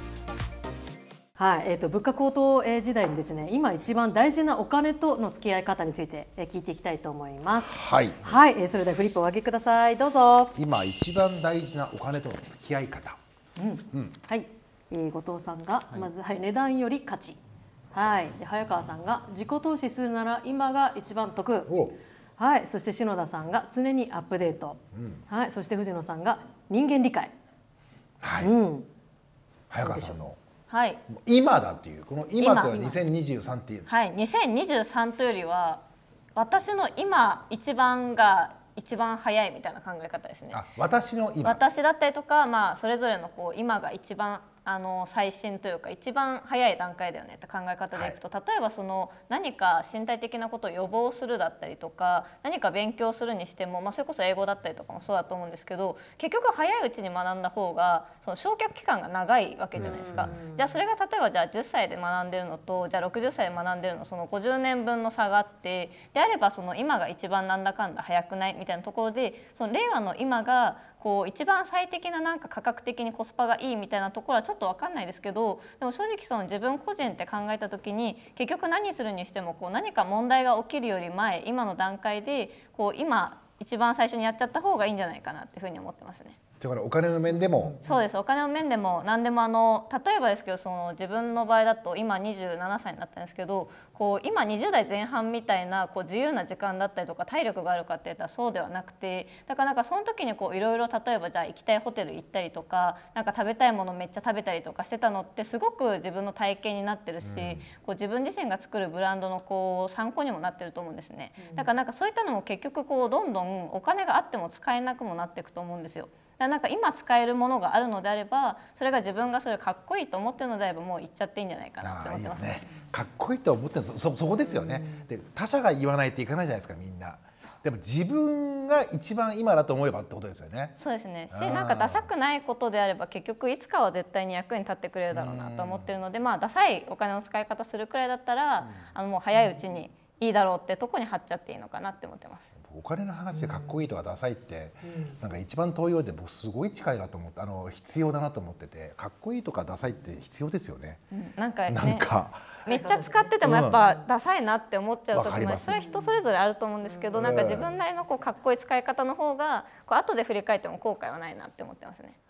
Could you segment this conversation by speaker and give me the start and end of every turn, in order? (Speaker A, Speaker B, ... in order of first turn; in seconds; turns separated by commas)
Speaker A: 1.4-10.5, Speaker B: 7.6-8.4, Speaker B: 10.6-13.2, Speaker A: 13.6-17.4, Speaker A: 17.9-21.7, Speaker B: 21.6-22.0, Speaker A: 22.4-27.3, Speaker B: 24.9-25.2, Speaker B: 28.2-28.5, Speaker A: 28.4-28.9, Speaker B: 29.7-30.4, Speaker A: 29.8-30.2, Speaker C: 30.7-31.0, Speaker B: 31.1-33.9, Speaker C: 32.4-33.0, Speaker C: 33.9-35.8, Speaker C: 36.3-40.7, Speaker B: 40.5-41.6, Speaker C: 41.4-86.3, Speaker B: 59.8-60.3, Speaker A: 60.0-60.7, Speaker B: 86.6-87.8, Speaker C: 87.8-122.7, Speaker B: 107.2-107.6, Speaker A: 111.4-111.7, Speaker B: 121.8-130.8, Speaker C: 130.8-142.5, Speaker B: 131.3-132.1, Speaker B: 135.1-135.9, Speaker B: 142.6-151.0, Speaker A: 143.3-143.8, Speaker A: 144.8-145.1, Speaker C: 151.1-152.1, Speaker B: 151.7-152.6, Speaker A: 152.6-153.3, Speaker C: 152.7-162.1, Speaker B: 153.4-153.8, Speaker B: 155.1-155.8, Speaker A: 156.8-157.1, Speaker B: 157.1-157.8